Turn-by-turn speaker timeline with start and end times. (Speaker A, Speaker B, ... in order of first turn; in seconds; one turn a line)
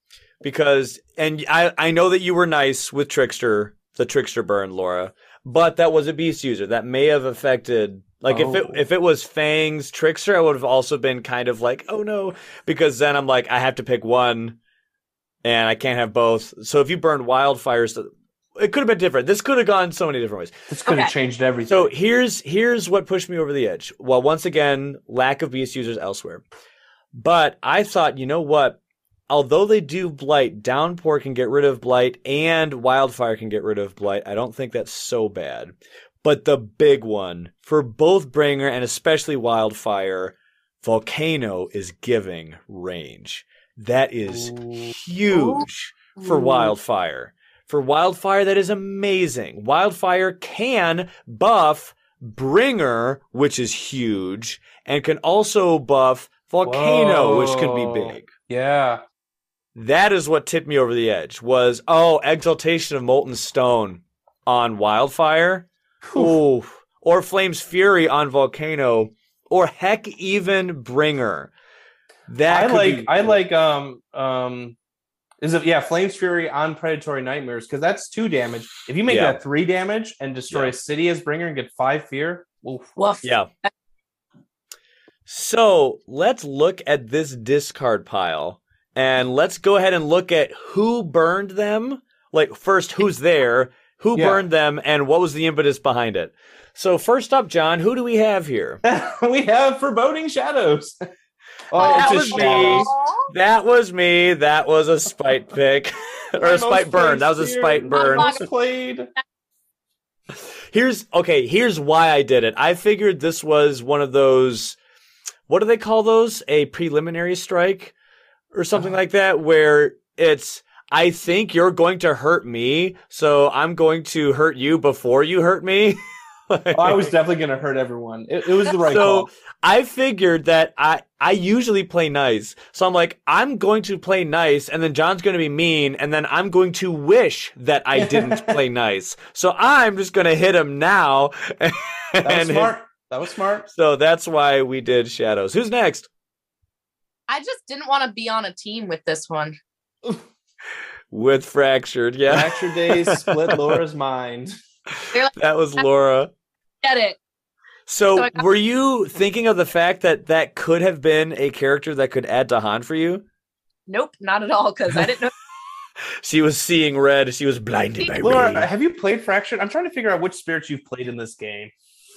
Speaker A: 0.4-14.6
Speaker B: 8.3-8.8
Speaker A: 15.4-20.6
Speaker B: 20.7-21.9
Speaker C: 20.9-21.1
Speaker A: 21.7-26.5
Speaker A: 27.1-58.3
Speaker B: 44.3-45.0
Speaker C: 45.3-45.6
Speaker C: 46.2-46.7
Speaker B: 56.6-59.0
Speaker A: 59.8-71.5
Speaker B: 66.0-66.4
Speaker A: 72.3-73.4
Speaker B: 72.5-74.8
Speaker B: 75.4-83.0
Speaker A: 79.1-79.4
Speaker C: 83.0-83.7
Speaker A: 83.2-83.5
Speaker A: 85.3-98.8
Speaker B: 94.2-94.4
Speaker B: 98.8-101.0
Speaker B: 101.7-102.9
Speaker C: 101.8-103.3
Speaker A: 101.9-108.3
Speaker B: 106.4-109.1
Speaker C: 107.9-108.5
Speaker A: 110.7-114.8
Speaker A: 115.5-117.9
Speaker A: 118.5-127.1
Speaker B: 126.8-129.3
Speaker A: 128.8-142.7
Speaker B: 137.9-138.6
Speaker B: 142.2-143.7
Speaker A: 143.7-146.1
Speaker C: 147.3-149.6
Speaker A: 151.1-153.8
Speaker B: 152.3-154.5
Speaker A: 154.9-156.3
Speaker C: 155.1-155.9
Speaker C: 156.8-157.2
Speaker A: 157.9-163.2
Speaker C: 158.2-158.4
Speaker C: 163.9-165.3
Speaker A: 166.2-168.7
Speaker B: 168.2-171.7